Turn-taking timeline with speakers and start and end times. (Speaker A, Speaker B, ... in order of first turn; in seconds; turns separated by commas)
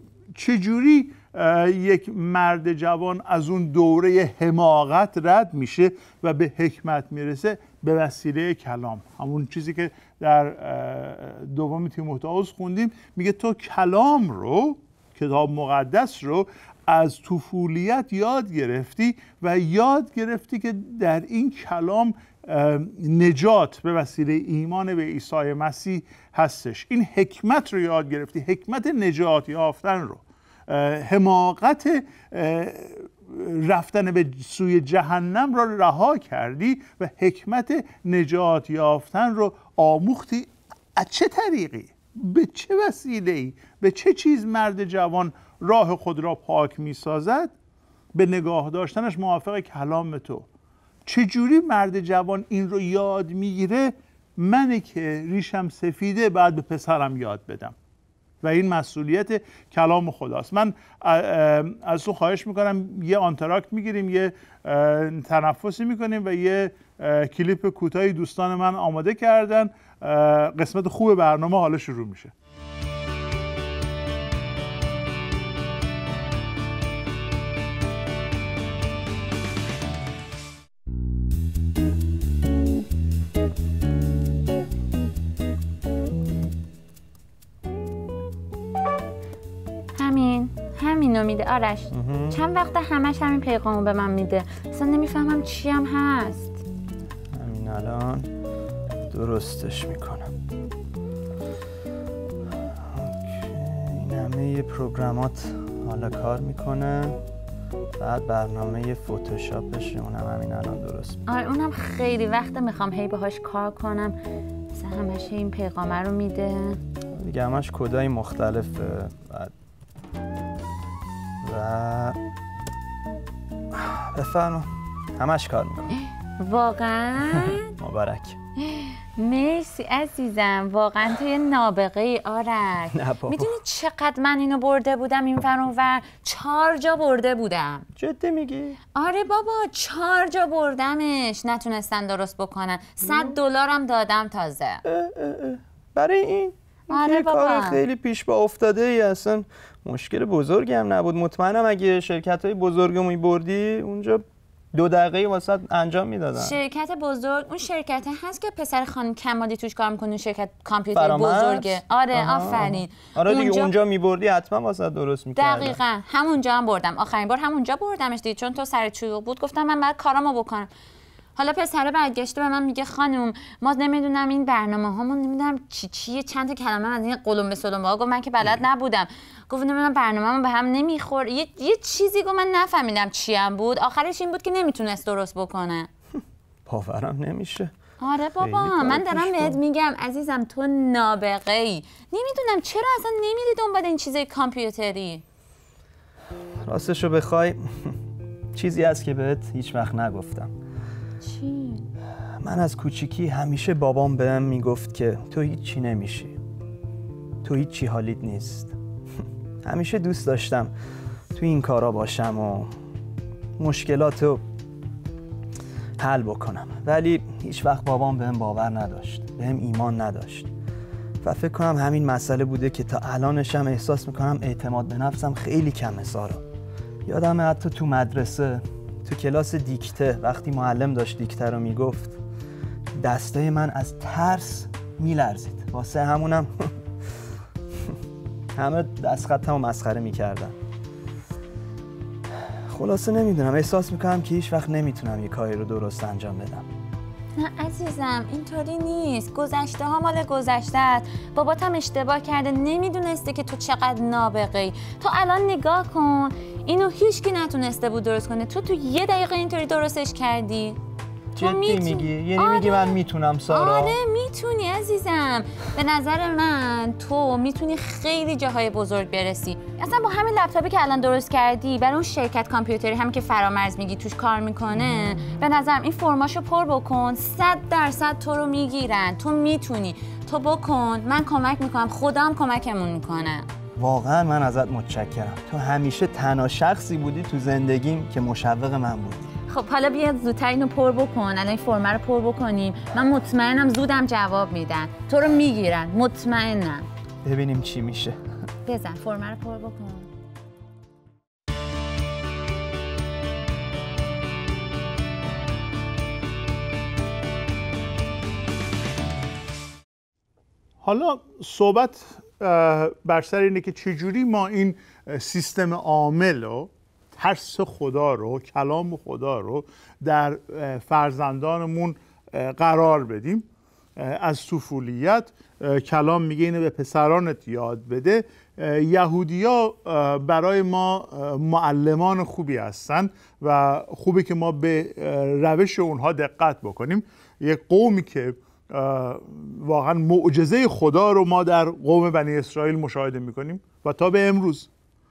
Speaker A: 0.3-47.5, Speaker A: 48.1-50.5, Speaker A: 51.1-57.8, Speaker A: 58.4-72.3, Speaker B: 90.0-96.6, Speaker C: 91.9-92.4, Speaker C: 97.3-98.3, Speaker C: 99.1-100.3, Speaker C: 102.8-107.2, Speaker C: 108.0-111.2, Speaker B: 111.3-114.2, Speaker B: 114.7-116.8, Speaker C: 117.2-119.5, Speaker C: 121.4-122.2, Speaker C: 123.7-126.0, Speaker B: 126.4-127.7, Speaker C: 127.3-128.4, Speaker B: 128.6-137.9, Speaker C: 132.9-133.6, Speaker C: 138.0-138.8, Speaker B: 138.9-144.8, Speaker C: 144.8-156.6, Speaker B: 146.9-147.8, Speaker B: 156.4-163.7, Speaker C: 160.9-165.8, Speaker B: 165.4-170.7, Speaker B: 171.4-185.9, Speaker C: 186.7-187.7, Speaker B: 188.0-195.2, Speaker C: 188.4-189.6, Speaker C: 196.7-198.0, Speaker C: 198.5-200.5, Speaker B: 201.2-201.9, Speaker C: 202.4-206.4, Speaker C: 207.4-208.8, Speaker C: 209.6-210.7, Speaker C: 211.3-212.7, Speaker C: 213.6-214.4, Speaker C: 216.0-220.5, Speaker C: 221.2-226.4, Speaker C: 227.1-232.2, Speaker C: 233.0-236.7, Speaker C: 238.6-240.6, Speaker C: 242.4-246.7, Speaker B: 247.4-260.8, Speaker C: 261.4-264.0, Speaker B: 261.4-283.5, Speaker C: 283.8-289.3, Speaker B: 289.5-296.9, Speaker C: 297.2-298.2, Speaker B: 298.7-300.1, Speaker A: 310.8-344.7